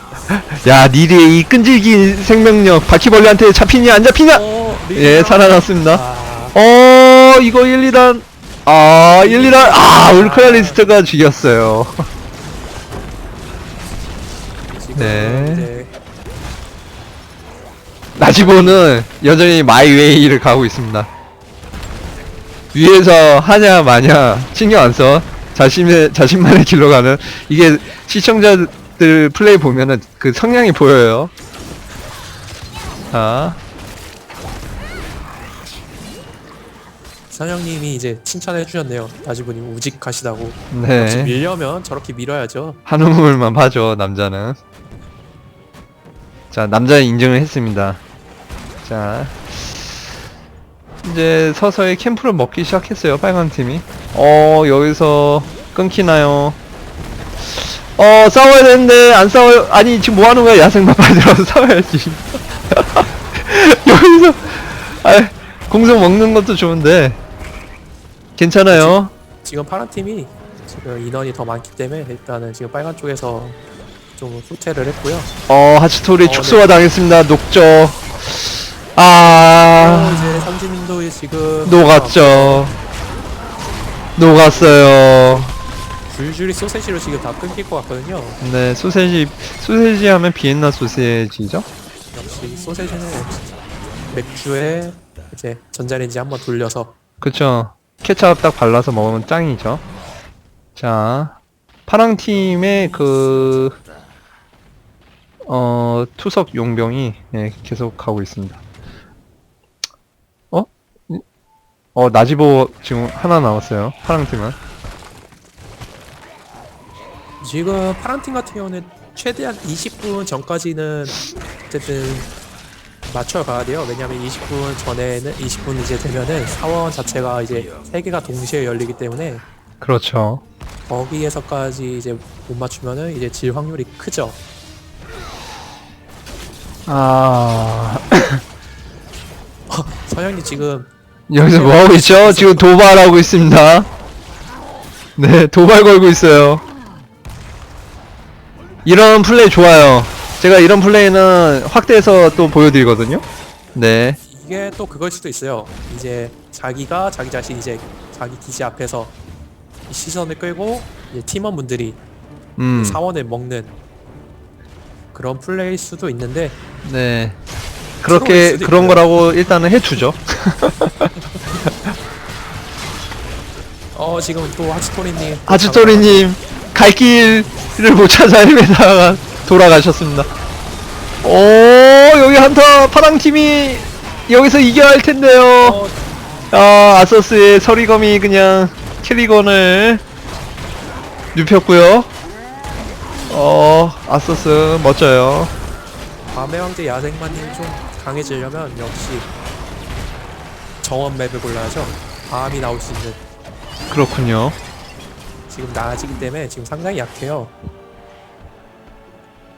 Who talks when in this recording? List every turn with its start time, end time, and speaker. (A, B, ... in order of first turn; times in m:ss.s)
0:00.3-0:04.4 A
0:04.3-0:06.5 B
0:04.9-0:06.0 A
0:06.5-0:12.0 A
0:09.2-0:10.8 B
0:14.7-0:15.9 B
0:15.0-0:15.7 A
0:18.2-0:21.1 A
0:18.3-0:18.8 B
0:22.7-0:31.3 A
0:33.1-0:33.6 A
0:37.3-0:42.8 B
0:40.7-0:41.3 A
0:42.8-0:44.6 A
0:46.5-0:48.0 A
0:48.8-0:50.0 A
0:51.0-0:56.6 A
0:57.5-1:07.2 A
1:08.4-1:09.1 A
1:08.7-1:13.6 B
1:14.2-1:15.3 B
1:15.5-1:20.5 A
1:16.2-1:16.7 B
1:19.8-1:22.7 B
1:21.6-1:22.7 A
1:24.2-1:25.5 A
1:24.3-1:25.5 B
1:26.1-1:28.4 B
1:28.4-1:31.6 A
1:32.1-1:33.6 B
1:34.1-1:36.9 B
1:37.2-1:39.8 A
1:40.8-1:41.4 A
1:41.9-1:43.8 A
1:45.4-1:48.6 A
1:50.5-1:51.2 A
1:51.9-1:54.6 A
1:57.4-2:02.3 B
2:03.0-2:09.4 B
2:09.8-2:10.4 A
2:10.9-2:14.4 B
2:16.9-2:18.4 A
2:19.7-2:22.8 B
2:21.3-2:23.9 A
2:25.2-2:26.6 A
2:28.8-2:33.2 A
2:33.7-2:34.2 A
2:34.2-2:39.2 B
2:39.9-2:42.0 B
2:42.6-2:43.0 A
2:42.7-2:43.8 B
2:45.1-2:46.6 B
2:46.8-2:47.4 A
2:48.0-2:51.1 A
2:48.0-2:49.0 B
2:53.9-2:56.3 B
2:55.5-3:00.3 A
3:01.2-3:05.8 A
3:05.6-3:06.0 B
3:06.5-3:10.0 A
3:11.3-3:12.1 A
3:13.3-3:15.5 A
3:16.3-3:19.3 B
3:20.8-3:23.2 B
3:23.9-3:24.6 A
3:25.5-3:27.5 B